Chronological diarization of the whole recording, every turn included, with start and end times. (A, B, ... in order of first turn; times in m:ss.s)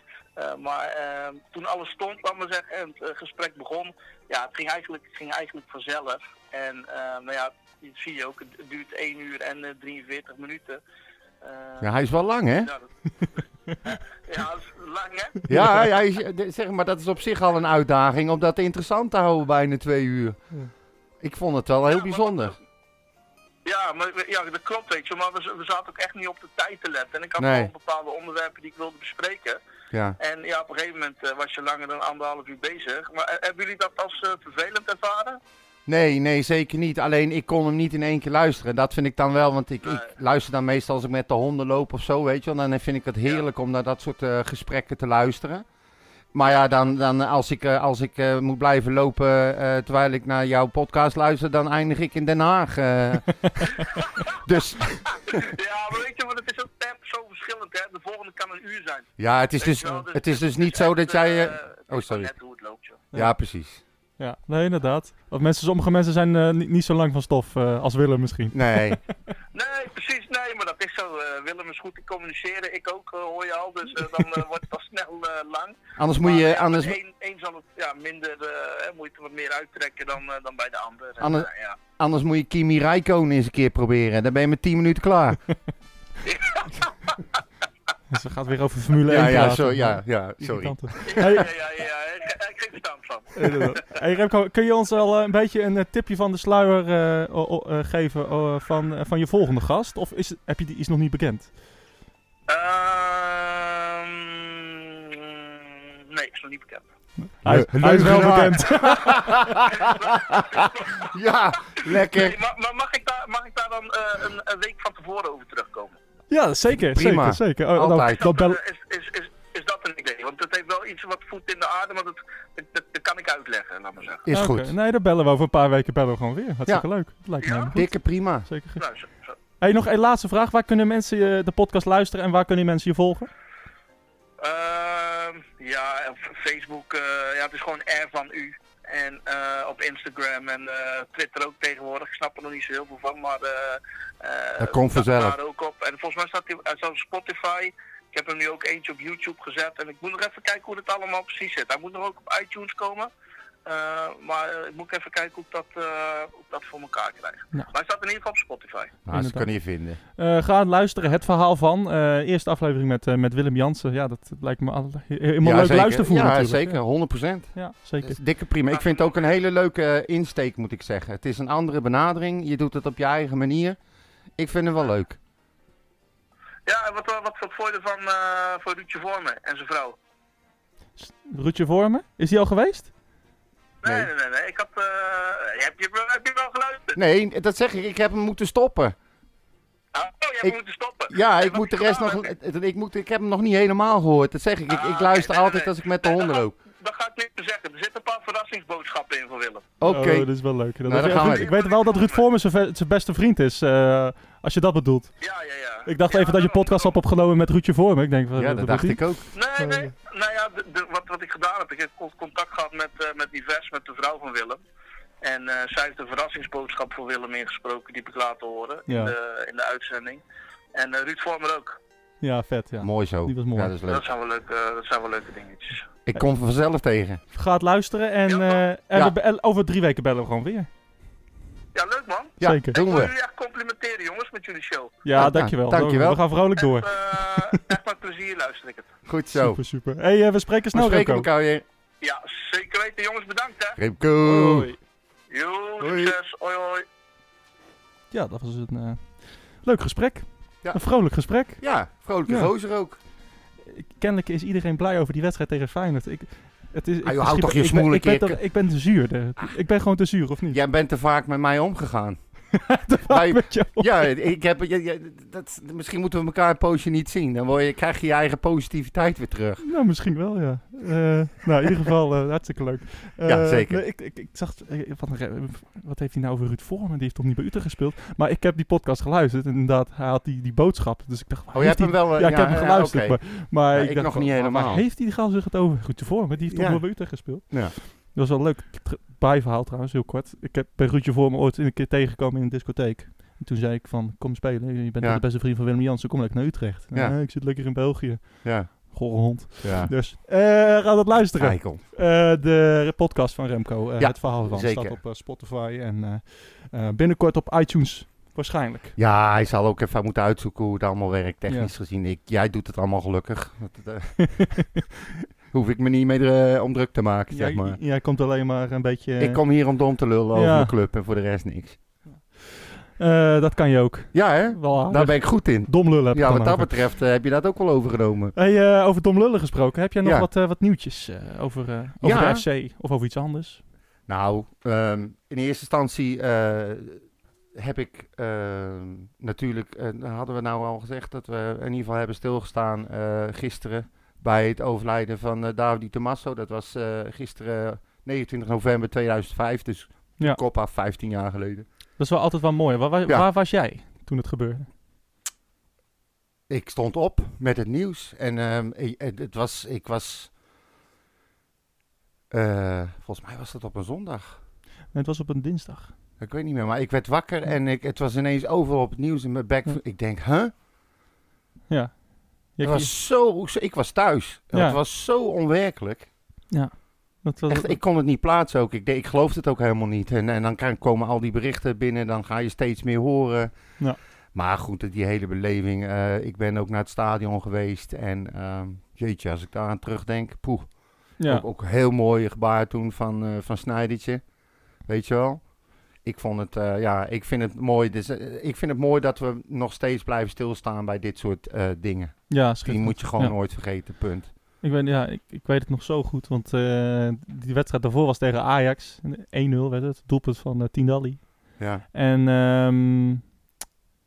0:00.4-0:10.8 A
0:11.4-0:11.9 A
0:11.8-0:12.7 B
0:12.6-0:15.4 A
0:15.5-0:15.9 C
0:15.5-0:20.4 B
0:21.2-0:22.6 B
0:21.9-0:22.6 A
0:23.6-0:29.6 A
0:27.4-0:27.7 B
0:29.9-0:30.2 B
0:30.2-0:35.4 A
0:35.9-0:45.7 B
0:46.3-0:55.4 B
0:55.3-1:03.1 A
0:59.2-1:02.3 B
1:03.1-1:03.8 B
1:04.2-1:09.0 C
1:08.5-1:09.0 B
1:09.5-1:21.8 A
1:16.0-1:17.0 B
1:21.2-1:25.4 B
1:26.2-1:27.4 A
1:28.1-1:31.5 C
1:29.1-1:31.0 B
1:31.0-1:33.8 A
1:33.4-1:41.5 C
1:42.5-1:46.9 A
1:47.2-1:49.3 C
1:47.4-1:52.4 B
1:48.6-1:56.0 A
1:56.3-1:58.6 C
1:56.7-1:58.2 B
1:58.1-2:04.2 A
2:04.2-2:04.7 B
2:04.3-2:08.8 C
2:07.4-2:07.7 A
2:07.7-2:08.5 B
2:08.8-2:09.4 A
2:09.6-2:13.3 C
2:14.4-2:33.1 A
2:24.6-2:25.4 B
2:33.7-2:39.0 A
2:39.0-2:40.0 B
2:39.1-2:48.2 C
2:45.4-2:53.8 B
2:48.7-2:49.2 A
2:54.4-2:55.2 B
2:56.7-3:00.0 A
3:01.0-3:02.9 C
3:03.8-3:07.0 A
3:07.0-3:09.0 B
3:09.9-3:12.3 A
3:11.1-3:16.6 B
3:14.7-3:19.7 A
3:19.8-3:21.5 B
3:19.9-3:25.2 C
3:21.0-3:22.2 A
3:25.2-3:27.0 A
3:25.9-3:29.0 C
3:28.4-3:29.3 B
3:29.3-3:34.6 A
3:29.6-3:29.9 C
3:35.2-3:40.2 A
3:38.9-3:39.2 C
3:40.8-3:41.8 A
3:42.2-3:43.7 C
3:42.8-3:44.0 B
3:43.9-3:45.9 A
3:46.0-3:47.2 B
3:47.3-3:50.7 C
3:48.3-3:48.6 A
3:51.7-3:55.0 A
3:52.4-3:53.1 B
3:52.4-3:52.8 C
3:55.0-3:57.6 C
3:55.2-3:56.2 B
3:56.6-3:59.0 A
3:59.1-3:59.6 B
3:59.3-4:01.3 C
4:00.7-4:01.6 B
4:02.0-4:03.8 A
4:03.8-4:04.7 B
4:04.2-4:04.8 C
4:05.3-4:06.8 A
4:05.8-4:06.1 B
4:08.1-4:12.5 C
4:10.6-4:13.0 B
4:13.6-4:20.6 C
4:17.0-4:18.4 B
4:20.5-4:29.6 B
4:22.6-4:23.9 C
4:29.6-5:09.0 C
4:33.2-4:33.8 B
4:41.5-4:44.9 B
4:46.5-4:47.8 B
4:56.9-4:57.2 B
4:58.4-4:59.9 B
5:01.4-5:01.8 B
5:04.0-5:05.0 B
5:09.0-5:14.8 B
5:11.5-5:11.7 C
5:14.2-5:14.5 C
5:15.5-5:17.8 B
5:17.3-5:19.7 C
5:19.2-5:21.8 B
5:20.3-5:20.7 C
5:23.0-5:26.8 C
5:24.1-5:28.3 B
5:28.4-5:33.6 C
5:30.0-5:30.3 B
5:32.0-5:32.5 B
5:34.1-5:37.0 B
5:37.6-5:51.7 B
5:52.0-5:54.7 C
5:56.5-6:00.3 B
6:02.3-6:04.4 B
6:04.9-6:05.9 C
6:06.2-6:10.5 B
6:11.7-6:12.9 C
6:12.6-6:16.1 B
6:14.5-6:14.8 C
6:16.5-6:17.8 C
6:17.5-6:34.2 B
6:31.2-6:31.4 C
6:34.8-6:44.3 B
6:42.3-6:43.4 C
6:44.6-6:53.2 C
6:51.6-6:51.8 B